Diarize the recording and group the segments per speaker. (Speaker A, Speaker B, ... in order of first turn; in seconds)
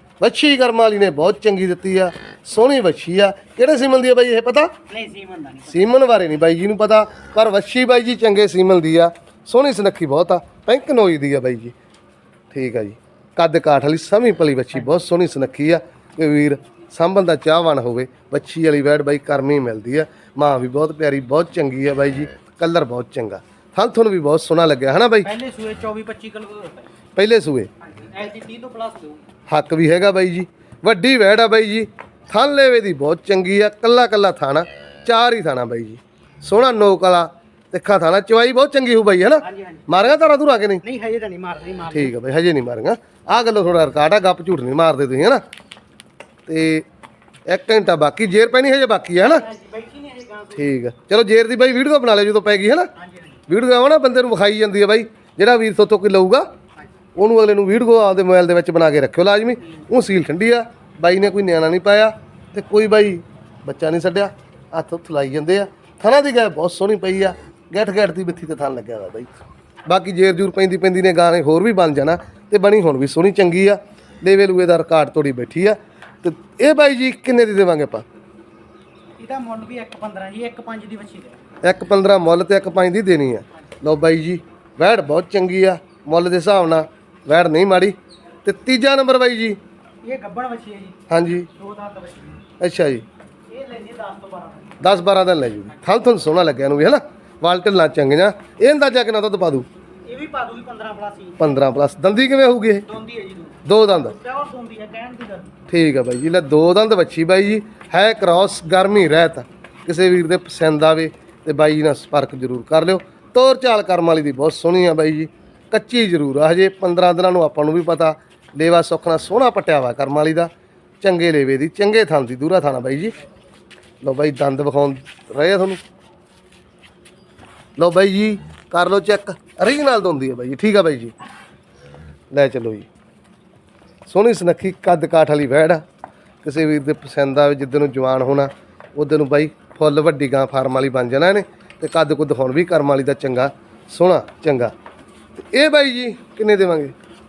Speaker A: 0.2-4.7, 5.7-11.8, 12.5-25.3, 27.2-27.7, 29.5-40.8, 41.9-45.4, 46.5-46.9, 47.5-49.5, 50.6-52.9, 53.5-56.5, 57.2-69.3, 69.9-78.0, 81.6-89.6, 91.1-91.5, 92.6-93.0, 94.8-99.7, 101.4-102.9, 103.6-104.1, 105.7-120.5, 121.0-123.1, 124.0-125.8, 127.8-131.1, 132.3-132.9, 134.1-135.8, 136.4-144.7, 145.4-146.9
Speaker B: 4.9-5.9, 25.2-26.9, 27.8-29.2, 39.4-40.2, 40.8-42.1, 49.2-50.7, 53.0-53.4, 79.2-81.4, 90.0-92.4, 93.5-94.8, 100.1-101.5, 102.9-105.6